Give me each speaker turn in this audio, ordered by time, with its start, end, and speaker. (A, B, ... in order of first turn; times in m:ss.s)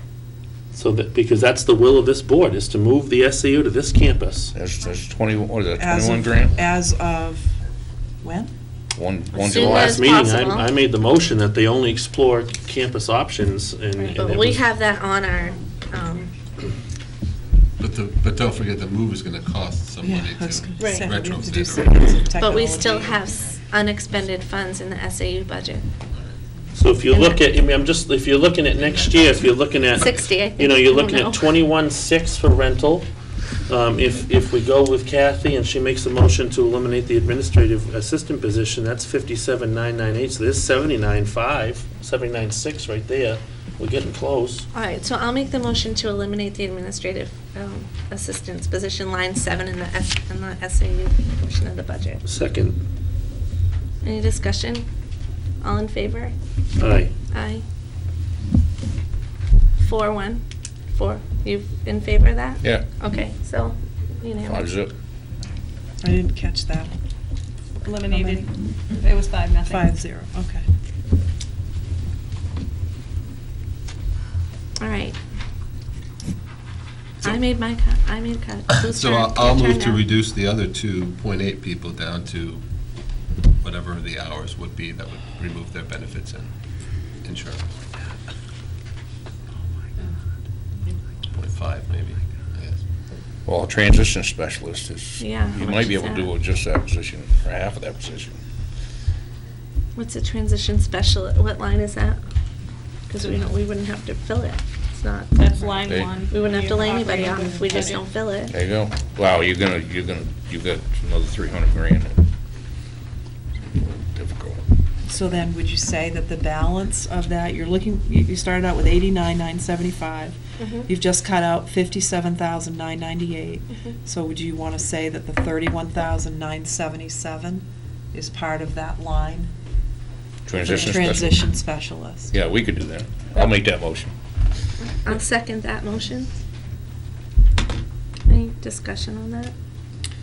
0:00.7-0:04.5 A
0:04.5-0:06.6 B
0:05.7-0:07.6 C
0:08.2-0:08.5 C
0:09.0-0:10.1 B
0:09.4-0:10.7 D
0:09.5-0:14.6 A
0:14.2-0:16.3 D
0:17.8-0:22.2 E
0:20.0-0:23.6 C
0:20.8-0:21.0 F
0:22.4-0:25.9 D
0:26.7-0:33.1 A
0:27.1-0:27.4 D
0:30.0-0:31.5 D
0:33.7-0:44.7 A
0:44.7-0:52.2 D
0:52.2-0:52.8 A
0:54.0-0:54.9 D
0:55.6-0:56.3 D
0:56.8-0:57.1 A
0:57.3-0:57.6 D
0:59.8-1:04.7 D
1:04.4-1:04.9 B
1:06.0-1:06.9 C
1:07.8-1:08.5 C
1:08.0-1:08.5 F
1:09.0-1:09.9 F
1:09.7-1:10.6 C
1:14.8-1:15.2 D
1:17.2-1:20.0 D
1:18.7-1:22.6 E
1:23.6-1:26.5 E
1:27.2-1:27.7 E
1:31.3-1:32.8 E
1:33.5-1:38.4 B
1:35.2-1:36.3 D
1:40.0-1:42.2 D
1:43.1-1:45.4 D
1:45.4-1:48.1 F
1:45.8-1:46.1 B
1:46.3-1:48.6 D
1:48.5-1:52.2 B
1:53.7-1:54.6 B
1:55.1-2:09.5 C
2:00.6-2:00.9 D
2:10.4-2:11.5 B
2:10.6-2:12.3 C
2:12.3-2:14.1 B
2:15.0-2:16.3 D
2:18.3-2:19.5 D